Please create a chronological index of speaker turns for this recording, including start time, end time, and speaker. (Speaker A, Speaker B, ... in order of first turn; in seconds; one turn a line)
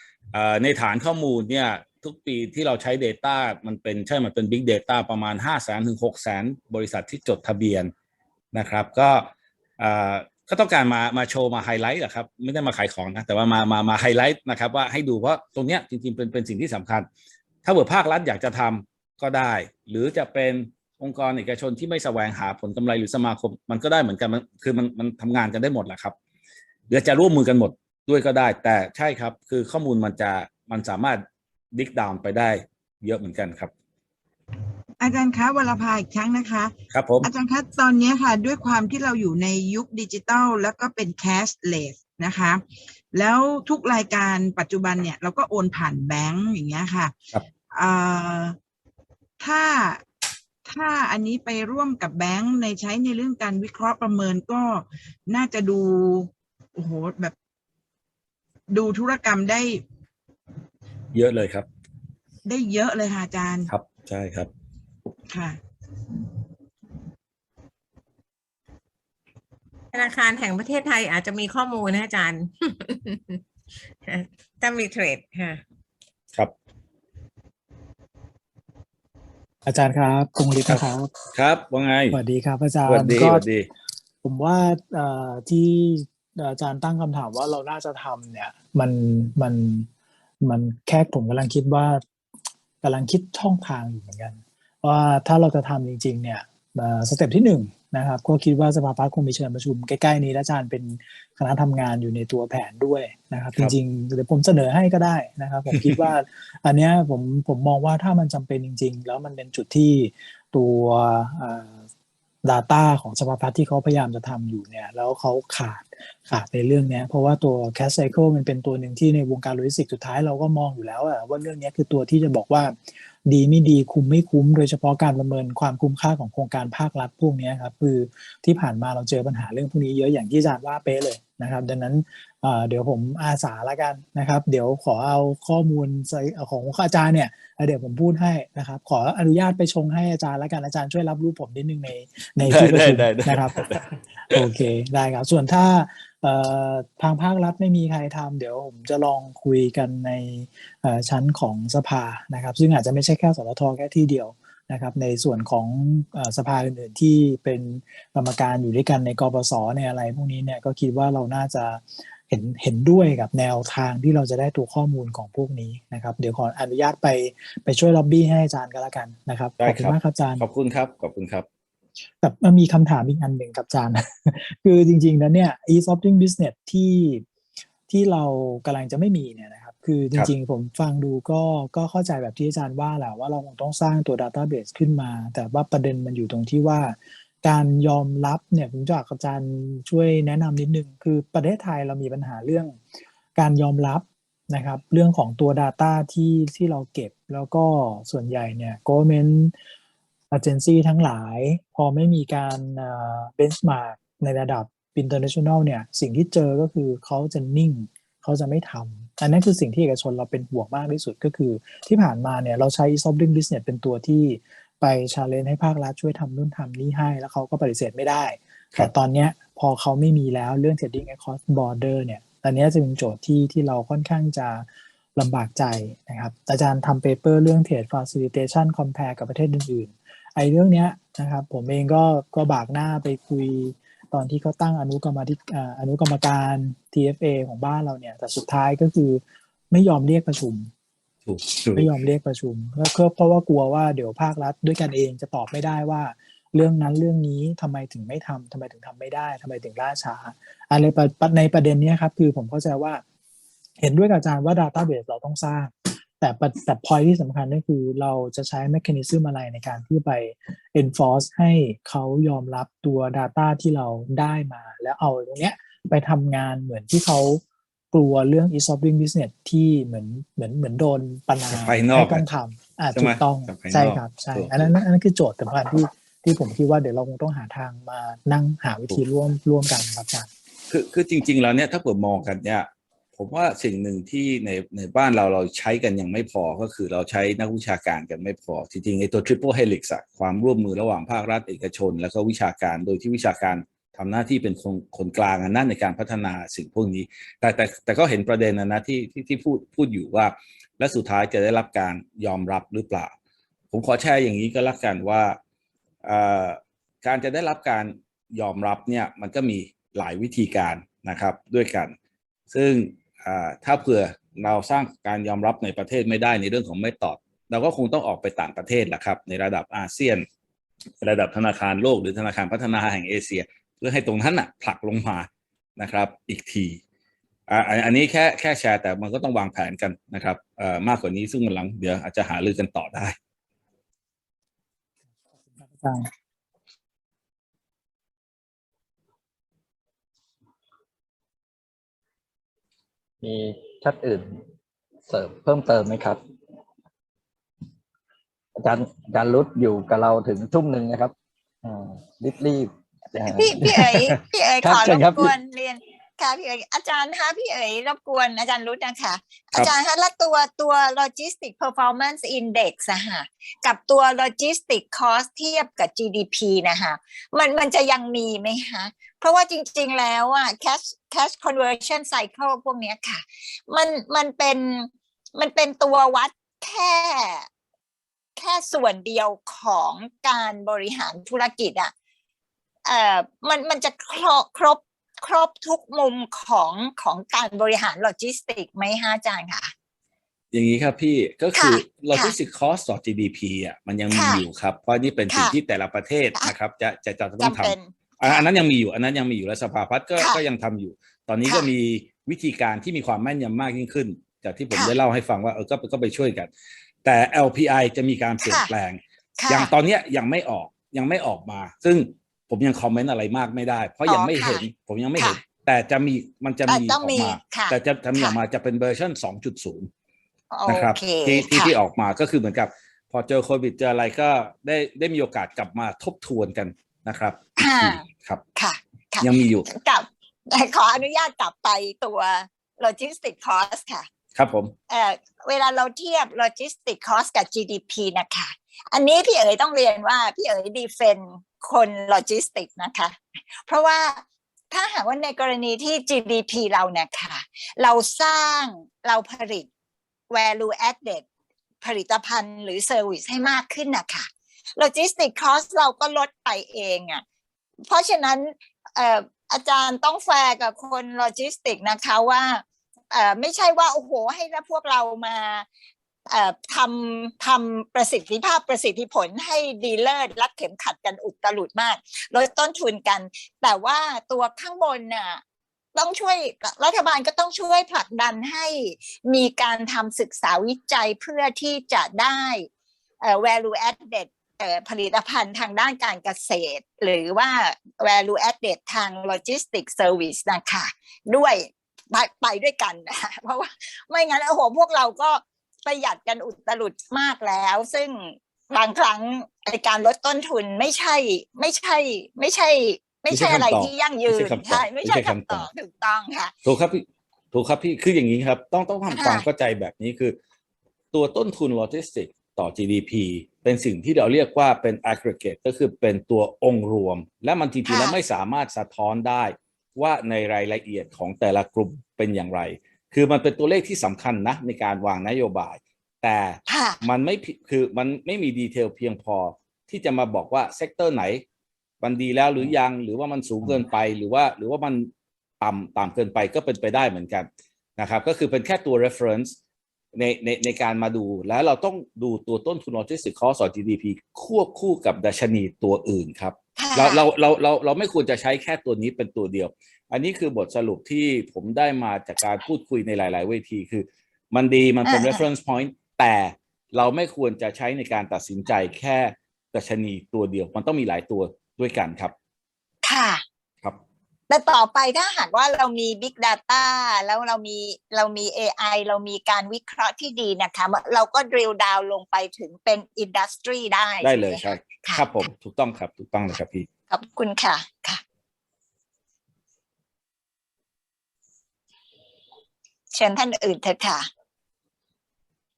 Speaker A: 0.3-7.9
Speaker A: 8.5-17.1
Speaker A: 17.6-26.1
Speaker A: 26.9-33.7
Speaker B: 35.0-42.6
Speaker A: 36.9-37.3
Speaker B: 43.1-47.1
Speaker B: 47.7-48.6
Speaker B: 49.4-50.0
Speaker B: 50.7-57.4
Speaker B: 58.7-59.8
Speaker A: 61.1-61.7
Speaker B: 62.5-63.7
Speaker A: 63.7-64.5
Speaker B: 65.3-65.6
Speaker C: 69.9-73.4
Speaker C: 74.0-75.6
Speaker D: 79.7-81.1
Speaker A: 80.7-82.2
Speaker D: 82.1-83.5
Speaker A: 82.8-83.7
Speaker D: 84.2-89.9
Speaker D: 90.4-92.0
Speaker D: 92.8-111.8
Speaker D: 112.4-143.7
Speaker A: 142.4-144.4
Speaker D: 144.3-170.4
Speaker A: 169.6-171.5
Speaker D: 172.2-177.2
Speaker D: 177.9-192.8
Speaker D: 193.4-199.5
Speaker D: 200.3-240.7
Speaker A: 241.3-241.9
Speaker D: 241.8-253.0
Speaker D: 253.8-267.4
Speaker D: 267.9-280.3
Speaker A: 271.5-272.2
Speaker A: 272.9-274.7
Speaker A: 280.7-303.1
Speaker A: 303.7-305.4
Speaker A: 306.0-312.0
Speaker A: 312.5-320.3
Speaker A: 321.0-326.8
Speaker A: 327.5-333.2
Speaker D: 335.6-336.1
Speaker E: 343.2-344.4
Speaker E: 345.1-346.2
Speaker E: 348.6-351.1
Speaker E: 351.6-355.3
Speaker F: 353.3-377.5
Speaker F: 378.4-381.9
Speaker F: 382.9-389.7
Speaker A: 390.5-406.5
Speaker F: 391.6-392.4
Speaker F: 394.1-394.4
Speaker F: 395.3-395.6
Speaker F: 397.4-398.5
Speaker A: 407.0-419.9
Speaker F: 408.4-408.7
Speaker F: 409.4-409.7
Speaker F: 414.1-414.6
Speaker F: 416.7-418.4
Speaker F: 420.5-421.7
Speaker A: 420.7-428.4
Speaker F: 427.6-428.0
Speaker F: 428.6-434.1
Speaker A: 429.2-429.7
Speaker A: 434.4-434.7
Speaker F: 434.9-449.7
Speaker F: 450.3-451.2
Speaker F: 451.8-457.2
Speaker F: 457.9-465.7
Speaker F: 466.3-475.4
Speaker F: 475.9-482.7
Speaker F: 483.2-506.5
Speaker A: 503.3-505.7
Speaker A: 506.7-510.4
Speaker F: 509.1-509.5
Speaker A: 511.1-531.4
Speaker F: 517.9-518.2
Speaker F: 526.7-527.0
Speaker A: 532.0-539.6
Speaker A: 540.1-562.3
Speaker F: 546.8-547.3
Speaker F: 555.0-555.4
Speaker F: 563.0-563.4
Speaker F: 564.5-575.5
Speaker A: 574.2-576.9
Speaker F: 577.1-578.2
Speaker F: 583.1-584.3